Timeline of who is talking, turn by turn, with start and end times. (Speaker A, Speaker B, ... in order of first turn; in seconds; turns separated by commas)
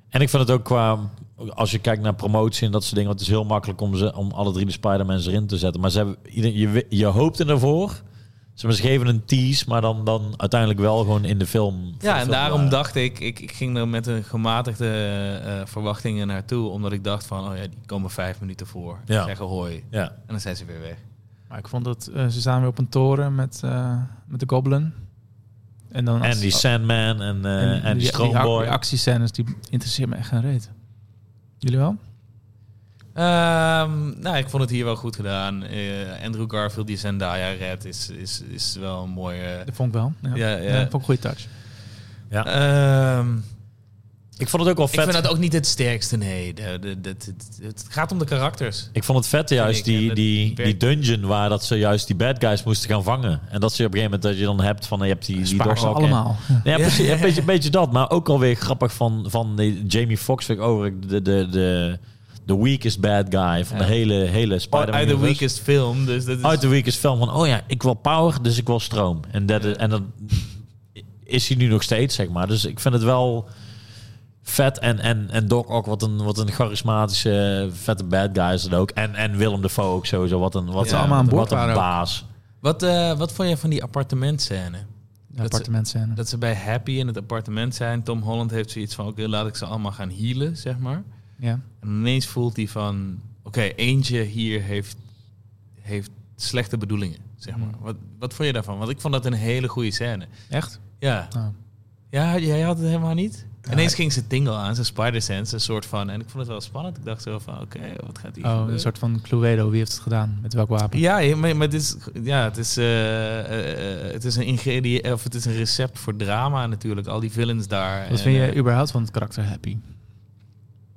Speaker A: 0.1-8.0, Speaker A: 8.6-12.8, Speaker B: 12.0-21.0, Speaker C: 21.5-25.0, Speaker C: 25.9-26.6, Speaker A: 26.2-28.8, Speaker C: 27.6-30.7, Speaker C: 31.6-32.0, Speaker B: 33.1-39.7, Speaker C: 39.7-41.5, Speaker B: 40.3-41.0, Speaker B: 42.4-43.5, Speaker A: 44.4-45.3, Speaker B: 44.9-48.9, Speaker A: 49.0-65.4, Speaker B: 49.6-50.8, Speaker C: 55.4-56.7, Speaker B: 56.7-57.5, Speaker B: 64.7-66.6, Speaker A: 66.4-73.5, Speaker A: 74.4-82.2, Speaker C: 80.8-81.9, Speaker B: 80.8-81.3, Speaker B: 82.6-84.9, Speaker C: 85.3-86.2, Speaker B: 85.4-91.0, Speaker B: 91.8-95.0, Speaker B: 95.8-101.4, Speaker C: 97.5-97.8, Speaker C: 100.5-101.5, Speaker B: 102.1-108.9, Speaker C: 103.7-104.0, Speaker C: 108.4-111.0, Speaker B: 110.9-118.6, Speaker C: 118.1-119.8